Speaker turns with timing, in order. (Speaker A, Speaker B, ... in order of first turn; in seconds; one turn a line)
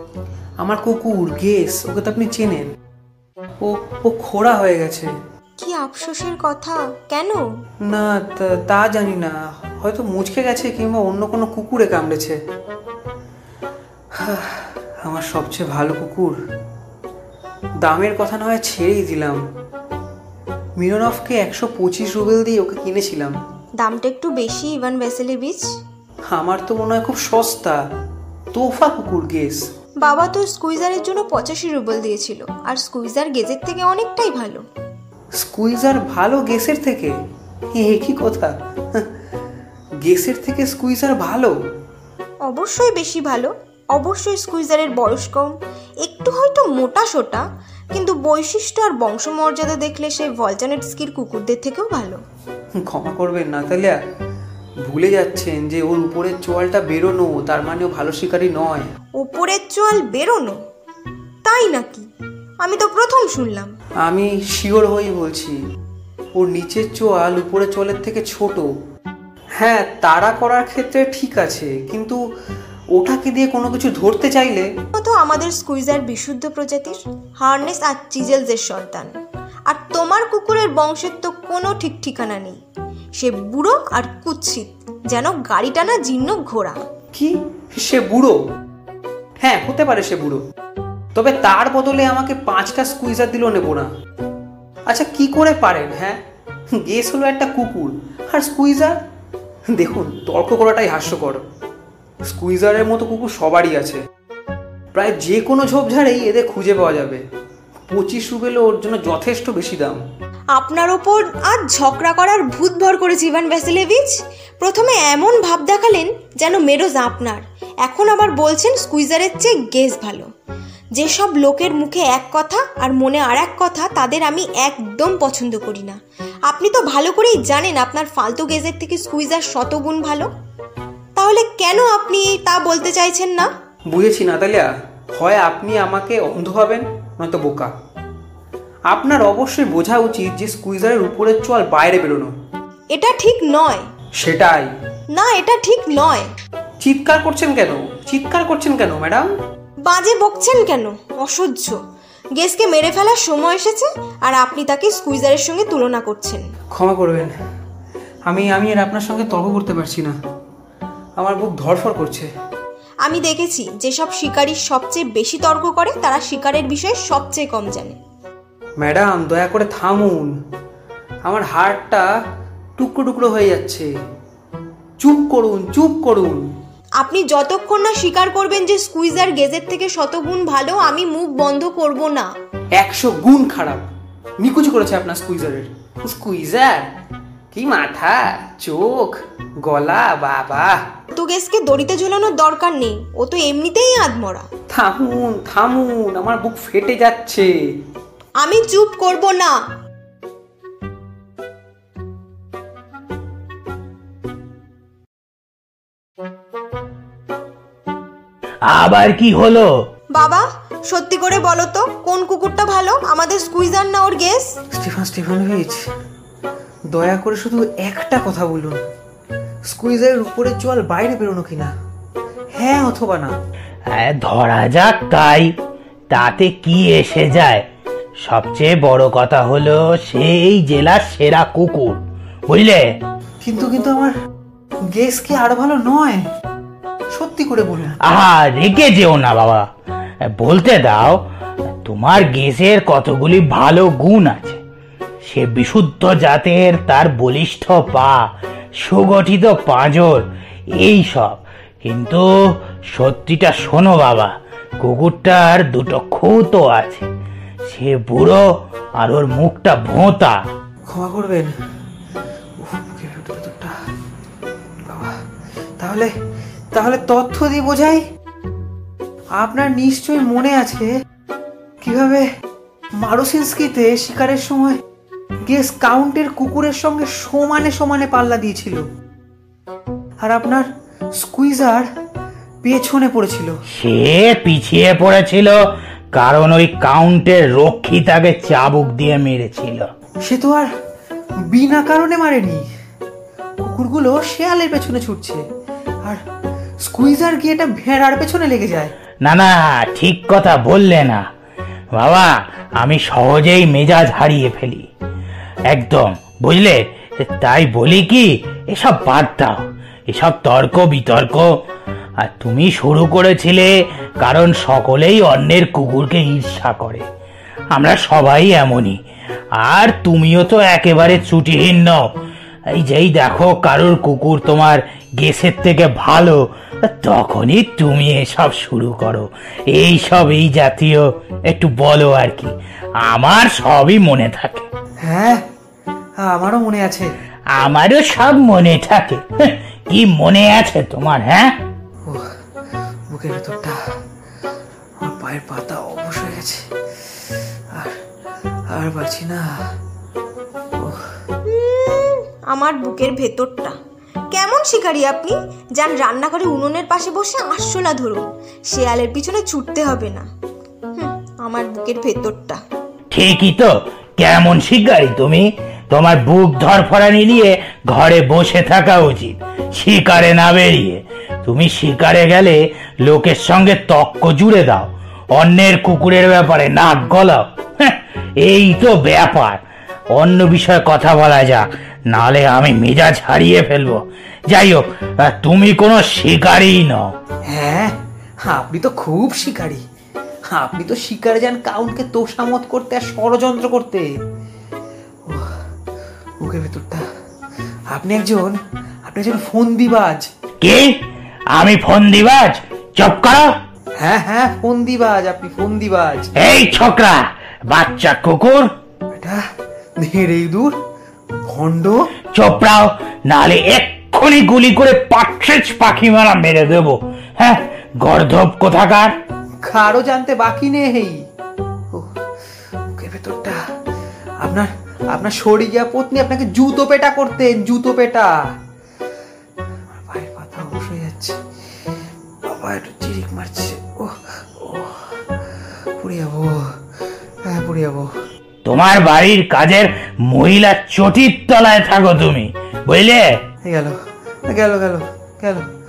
Speaker A: 0.6-2.7
Speaker A: 3.6-5.1
Speaker B: 5.6-7.4
Speaker A: 7.8-12.4
Speaker A: 14.1-16.4
Speaker A: 17.8-19.4
Speaker A: 20.8-23.4
Speaker B: 23.8-25.7
Speaker A: 26.3-27.8
Speaker A: 28.5-29.6
Speaker B: 30.0-34.6
Speaker A: 35.4-37.1
Speaker A: 37.7-39.1
Speaker A: 40.0-41.6
Speaker B: 42.5-52.2
Speaker A: 52.7-54.0
Speaker A: 54.9-58.9
Speaker B: 59.2-60.6
Speaker B: 61.4-62.1
Speaker B: 62.6-63.7
Speaker A: 64.0-65.6
Speaker A: 66.4-68.7
Speaker A: 69.6-72.2
Speaker A: 72.9-74.7
Speaker B: 74.9-79.2
Speaker B: 79.7-82.6
Speaker B: 83.2-86.8
Speaker A: 87.1-88.4
Speaker A: 89.4-90.4
Speaker A: 91.1-93.9
Speaker A: 94.9-96.2
Speaker A: 96.7-99.0
Speaker A: 99.7-101.4
Speaker A: 102.2-104.0
Speaker A: 104.9-107.2
Speaker A: 107.9-110.0
Speaker B: 110.5-120.3
Speaker B: 121.0-130.3
Speaker B: 131.2-133.5
Speaker A: 133.9-137.7
Speaker A: 138.9-142.3
Speaker B: 142.9-143.9
Speaker A: 144.2-144.7
Speaker B: 145.1-146.3
Speaker A: 146.8-149.3
Speaker B: 149.9-151.8
Speaker B: 152.4-156.5
Speaker A: 156.7-157.3
Speaker A: 158.3-160.2
Speaker A: 161.2-162.3
Speaker B: 163.1-168.0
Speaker A: 168.8-170.3
Speaker A: 171.2-172.1
Speaker A: 172.8-173.9
Speaker A: 175.0-176.5
Speaker B: 177.0-182.3
Speaker A: 182.8-183.8
Speaker A: 184.4-186.9
Speaker A: 187.5-190.9
Speaker B: 191.1-194.5
Speaker A: 194.7-197.5
Speaker B: 198.4-199.6
Speaker C: 208.7-209.7
Speaker B: 210.2-214.5
Speaker A: 214.7-215.9
Speaker A: 216.9-218.8
Speaker A: 219.7-221.7
Speaker A: 222.6-223.3
Speaker C: 223.9-225.5
Speaker C: 226.1-227.6
Speaker C: 228.2-232.8
Speaker A: 233.4-234.1
Speaker A: 234.9-236.2
Speaker A: 237.1-238.0
Speaker C: 238.0-239.7
Speaker C: 240.3-241.2
Speaker C: 241.8-244.6
Speaker C: 245.2-248.2
Speaker C: 248.8-250.2
Speaker C: 250.8-252.2
Speaker C: 252.9-257.1
Speaker C: 257.7-258.4
Speaker C: 259.0-260.4
Speaker A: 260.9-261.5
Speaker A: 262.6-263.7
Speaker A: 264.9-265.2
Speaker A: 265.8-266.1
Speaker A: 266.7-268.0
Speaker A: 269.4-271.0
Speaker A: 271.8-272.3
Speaker A: 273.0-274.8
Speaker A: 275.5-278.9
Speaker A: 280.2-281.9
Speaker A: 282.6-283.6
Speaker C: 283.7-285.6
Speaker C: 286.1-289.9
Speaker A: 290.2-290.7
Speaker A: 291.4-292.7
Speaker A: 293.6-295.4
Speaker A: 296.9-298.9
Speaker C: 299.2-301.2
Speaker C: 301.9-304.9
Speaker C: 305.7-311.6
Speaker C: 312.2-317.1
Speaker C: 317.7-319.0
Speaker C: 319.6-322.1
Speaker C: 322.7-334.7
Speaker A: 335.0-335.4
Speaker A: 336.2-337.1
Speaker C: 337.6-341.5
Speaker A: 343.1-343.8
Speaker A: 345.0-346.7
Speaker A: 347.7-348.0
Speaker A: 348.7-349.7
Speaker A: 350.8-351.1
Speaker B: 351.4-353.8
Speaker B: 354.3-360.3
Speaker B: 361.0-362.6
Speaker C: 363.1-379.6
Speaker C: 380.1-387.1
Speaker A: 387.5-389.8
Speaker A: 390.5-394.2
Speaker A: 395.2-395.6
Speaker A: 396.4-397.1
Speaker A: 397.9-400.3
Speaker C: 400.6-401.0
Speaker C: 401.6-403.5
Speaker A: 404.0-406.3
Speaker C: 406.4-408.7
Speaker A: 409.1-409.4
Speaker A: 410.0-410.8
Speaker A: 411.3-412.1
Speaker C: 412.4-419.1
Speaker A: 419.6-421.2
Speaker A: 423.0-423.6
Speaker A: 424.4-428.3
Speaker A: 430.0-431.4
Speaker A: 432.4-435.1
Speaker A: 436.0-436.8
Speaker A: 437.5-438.1
Speaker C: 438.6-443.3
Speaker A: 443.7-445.6